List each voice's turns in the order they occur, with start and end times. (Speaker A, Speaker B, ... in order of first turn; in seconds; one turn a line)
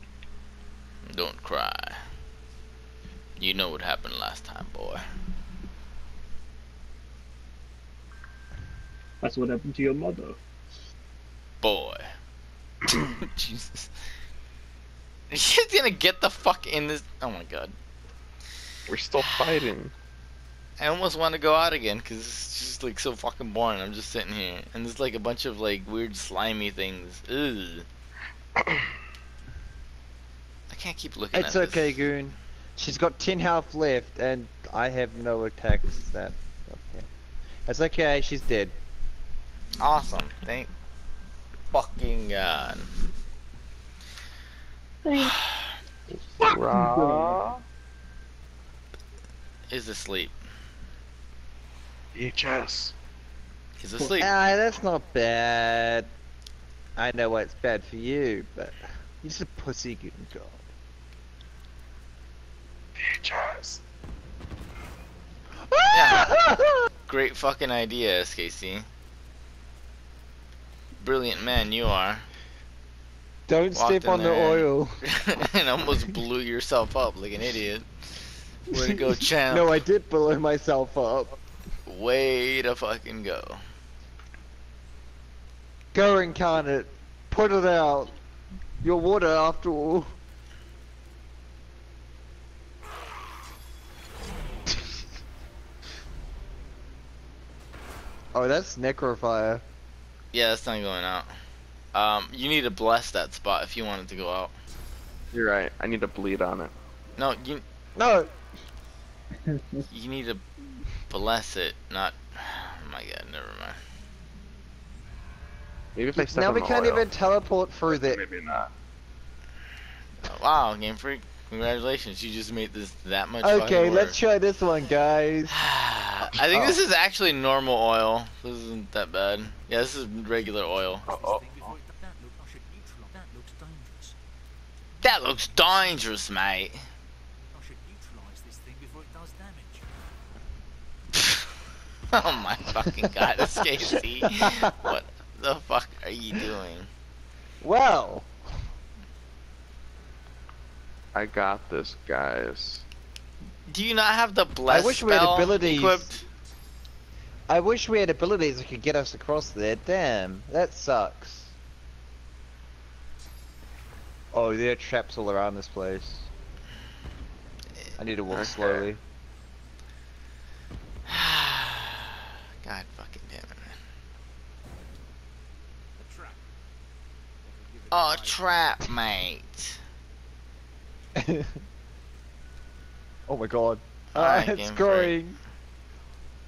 Speaker A: 1.1-2.0
Speaker A: 3.4-5.0
Speaker B: 9.2-10.4
Speaker A: 11.6-12.1
Speaker A: 13.0-13.9
Speaker A: 15.3-17.7
Speaker C: 18.9-19.9
Speaker A: 19.2-19.7
Speaker A: 20.8-27.9
Speaker C: 28.6-28.9
Speaker A: 30.7-32.0
Speaker D: 31.3-37.1
Speaker D: 37.6-38.7
Speaker A: 39.8-40.7
Speaker A: 41.7-42.9
Speaker B: 45.0-45.3
Speaker A: 45.1-45.7
Speaker C: 46.1-47.6
Speaker B: 46.5-47.4
Speaker A: 49.7-50.3
Speaker C: 52.1-52.9
Speaker A: 53.8-54.3
Speaker D: 54.0-56.1
Speaker D: 57.0-60.6
Speaker C: 63.0-63.8
Speaker D: 65.6-66.9
Speaker A: 65.9-66.3
Speaker A: 67.1-68.8
Speaker A: 71.0-72.2
Speaker D: 73.5-75.0
Speaker A: 73.7-77.9
Speaker A: 78.7-79.8
Speaker D: 78.7-81.4
Speaker A: 81.8-83.6
Speaker D: 85.9-88.2
Speaker D: 88.8-90.1
Speaker D: 98.3-99.6
Speaker A: 100.3-101.3
Speaker A: 101.9-104.5
Speaker C: 105.3-106.7
Speaker A: 107.2-107.6
Speaker D: 108.0-108.3
Speaker B: 109.5-109.8
Speaker A: 109.9-110.4
Speaker A: 111.1-113.8
Speaker C: 116.0-117.1
Speaker D: 116.2-118.2
Speaker C: 117.9-118.7
Speaker A: 120.2-124.2
Speaker D: 123.4-125.5
Speaker A: 125.5-131.1
Speaker D: 126.3-126.8
Speaker E: 131.0-134.1
Speaker C: 131.1-131.7
Speaker A: 135.0-136.8
Speaker E: 137.5-139.9
Speaker A: 142.1-146.9
Speaker D: 144.2-144.9
Speaker D: 147.6-148.6
Speaker C: 151.1-152.8
Speaker A: 153.7-156.2
Speaker D: 154.7-156.1
Speaker D: 157.5-161.5
Speaker D: 164.3-166.3
Speaker D: 168.0-169.0
Speaker C: 168.3-168.9
Speaker A: 171.1-173.8
Speaker E: 176.1-176.3
Speaker A: 177.9-179.8
Speaker D: 181.1-181.6
Speaker D: 183.3-185.4
Speaker A: 184.1-185.2